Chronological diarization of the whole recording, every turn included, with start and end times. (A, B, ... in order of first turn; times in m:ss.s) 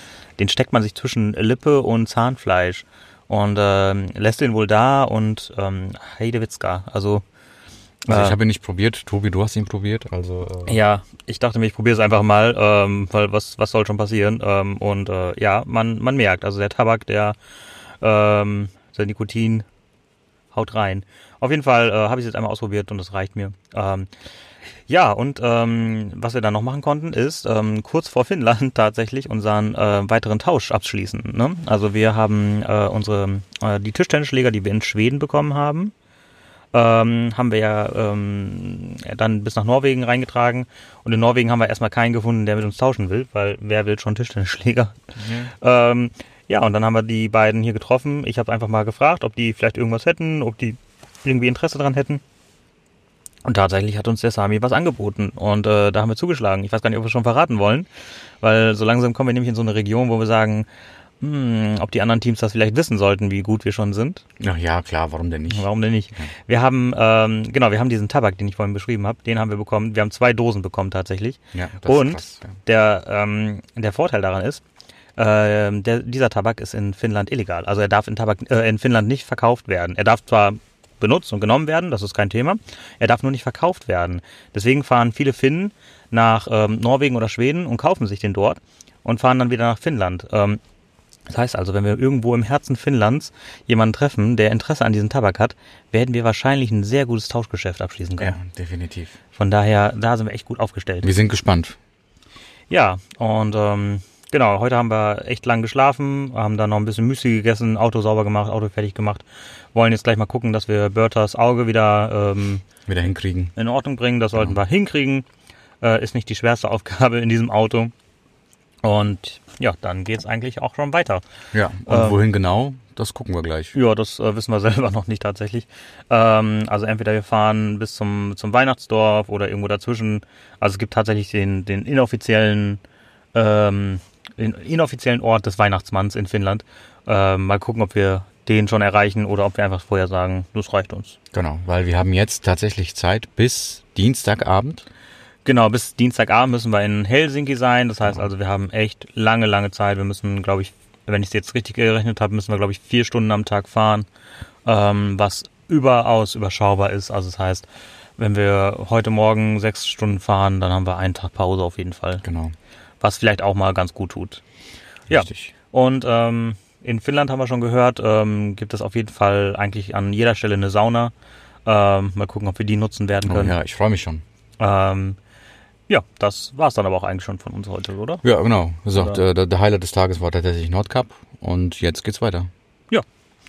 0:00.4-0:07.2 A
0:08.0-0:08.4 A
0:08.1-0:10.8 B
0:10.6-0:17.4 A
0:18.0-0:19.6 A
0:20.5-0:24.1 A
0:24.9-0:35.9 A
0:36.7-0:52.2 A
0:45.2-0:45.5 B
0:53.4-0:57.9 A
0:58.4-1:00.7 A
1:01.2-1:04.2 A
1:04.4-1:06.3 B
1:05.5-1:14.6 A
1:11.5-1:12.6 B
1:15.2-1:30.6 A
1:31.3-1:38.4 A
1:38.2-1:39.2 B
1:39.3-1:41.1 A
1:41.0-1:41.8 B
1:42.7-1:52.6 A
1:52.9-1:53.5 B
1:53.6-1:55.2 A
1:55.8-1:57.9 A
1:58.8-2:01.2 A
2:01.5-2:03.7 B
2:01.8-2:02.2 A
2:03.7-2:12.8 A
2:13.3-2:21.2 A
2:21.3-2:24.8 B
2:25.4-2:34.1 A
2:34.6-2:37.6 A
2:38.2-2:42.2 A
2:42.2-2:42.5 B
2:43.0-2:44.4 A
2:45.1-2:51.1 A
2:45.1-2:45.5 B
2:51.6-2:53.6 A
2:53.2-2:54.2 B
2:54.6-2:55.2 A
2:55.9-2:58.2 A
2:58.2-3:02.5 B
2:58.9-2:59.2 A